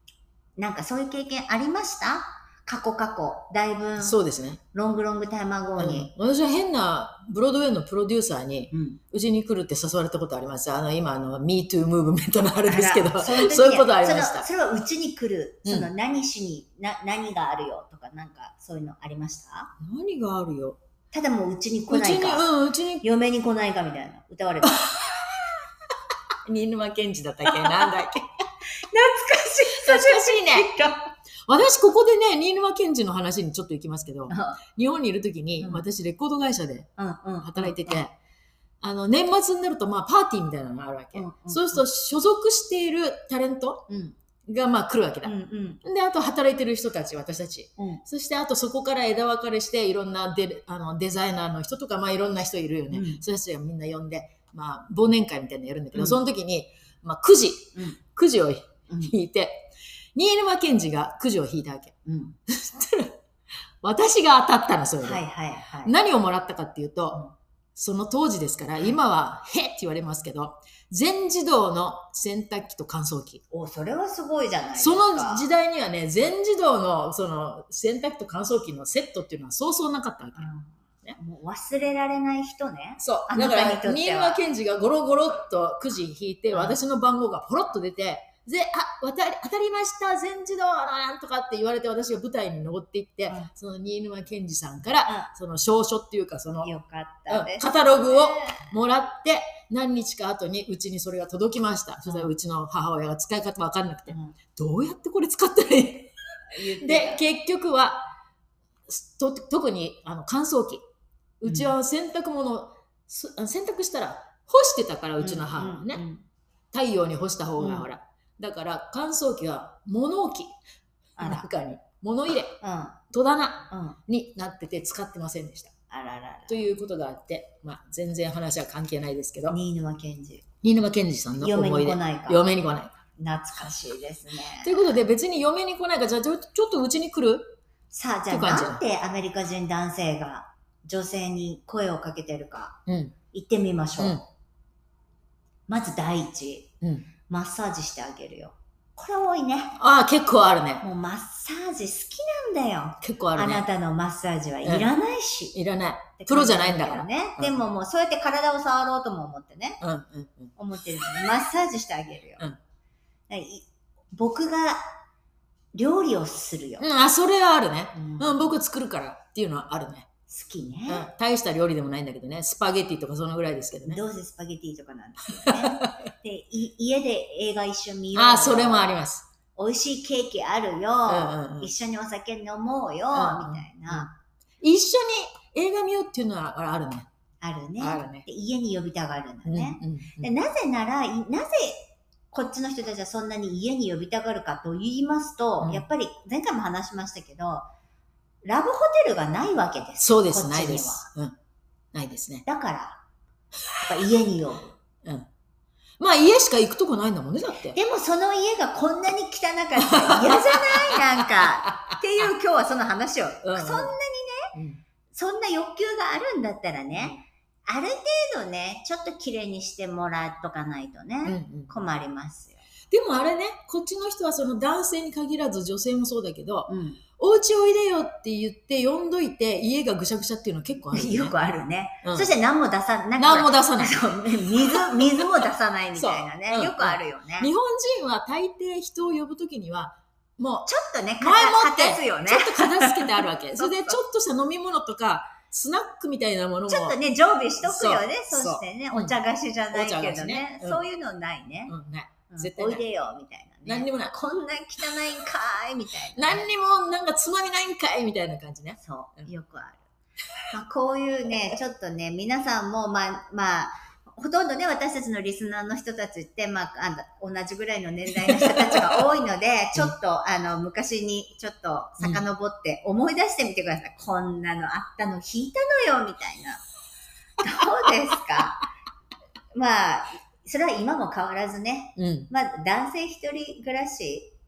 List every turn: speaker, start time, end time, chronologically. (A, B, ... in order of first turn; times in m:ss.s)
0:00.6-0:04.2 A
0:04.0-0:04.6 B
0:04.7-0:06.1 A
0:05.8-0:14.5 B
0:08.7-0:09.0 A
0:12.6-0:19.7 A
0:15.6-0:15.9 B
0:19.8-0:20.8 B
0:21.1-0:22.5 A
0:21.9-0:23.0 B
0:23.0-0:24.9 A
0:24.6-0:25.5 B
0:26.4-0:28.2 B
0:27.5-0:27.8 A
0:28.8-0:31.1 A
0:29.7-0:30.7 B
0:31.5-0:36.9 B
0:34.3-0:34.6 A
0:35.6-0:35.8 A
0:37.0-0:38.0 A
0:37.4-0:38.1 B
0:38.8-0:43.8 B
0:41.1-0:41.8 A
0:43.9-0:44.2 A
0:44.5-0:45.3 B
0:45.2-0:45.8 A
0:45.8-1:01.9 B
0:47.8-0:48.0 A
0:52.9-0:53.2 A
0:55.9-0:56.2 A
0:57.7-0:58.0 A
1:02.0-1:02.4 A
1:02.5-1:03.2 B
1:03.8-1:05.2 B
1:05.0-1:05.9 A
1:05.8-1:13.4 B
1:13.5-1:15.4 A
1:14.8-1:20.5 B
1:20.4-1:24.4 A
1:23.0-1:36.7 B
1:26.5-1:26.8 A
1:35.0-1:35.3 A
1:36.6-1:38.7 A
1:37.3-1:46.1 B
1:42.0-1:42.3 A
1:44.1-1:44.4 A
1:46.5-1:47.3 A
1:46.8-1:48.1 B
1:48.9-1:50.8 B
1:51.4-1:56.0 B
1:51.4-1:51.7 A
1:55.2-1:56.2 A
1:56.7-2:00.5 B
1:57.6-1:57.9 A
2:01.2-2:01.5 A
2:01.2-2:02.6 B
2:02.6-2:03.0 A
2:03.1-2:05.7 B
2:03.7-2:04.0 A
2:05.9-2:06.6 A
2:06.5-2:09.6 B
2:09.5-2:10.4 A
2:10.6-2:12.9 B
2:11.4-2:12.4 A
2:13.2-2:14.8 A
2:14.6-2:17.6 B
2:17.9-2:22.8 A
2:18.3-2:18.8 B
2:22.9-2:23.1 B
2:23.3-2:24.2 A
2:24.0-2:24.2 B
2:25.7-2:26.7 A
2:26.8-2:27.1 B
2:27.3-2:29.8 A
2:29.8-2:30.8 B
2:30.8-2:35.5 A
2:33.0-2:33.6 B
2:34.6-2:34.9 B
2:35.5-2:37.6 B
2:36.2-2:39.8 A
2:39.8-2:40.5 B
2:40.6-2:42.5 A
2:43.3-2:44.8 A
2:45.7-2:46.8 A
2:46.8-2:50.1 B
2:47.9-2:48.6 A
2:50.3-2:51.1 A
2:50.9-2:54.0 B
2:53.8-2:59.0 A
2:55.5-2:55.9 B
2:58.1-2:59.3 B
2:59.6-3:04.1 A
3:01.1-3:01.7 B
3:03.1-3:04.1 B
3:04.6-3:07.1 B
3:07.4-3:17.7 A
3:07.8-3:08.2 B
3:09.4-3:10.3 B
3:18.4-3:21.1 A
3:20.0-3:21.4 B
3:21.9-3:22.4 B
3:22.4-3:23.0 A
3:23.8-3:24.7 A
3:26.0-3:27.8 B
3:27.7-3:34.5 A
3:29.8-3:31.9 B
3:33.4-3:33.9 B
3:34.5-3:34.8 B
3:35.1-3:42.6 A
3:36.9-3:37.2 B
3:41.2-3:41.7 B
3:42.9-3:51.4 B
3:46.7-3:47.0 A
3:50.9-3:57.5 A
3:52.0-3:52.3 B
3:53.2-3:55.3 B
3:56.0-4:00.7 B
4:00.6-4:04.0 A
4:01.2-4:07.0 B
4:06.7-4:11.7 A
4:07.6-4:09.2 B
4:09.7-4:10.8 B
4:11.7-4:12.8 B
4:12.3-4:16.4 A
4:13.6-4:14.1 B
4:16.2-4:18.8 B
4:18.8-4:19.8 A
4:20.5-4:36.6 A
4:37.4-4:38.6 A
4:39.5-4:44.3 A
4:42.0-4:42.3 B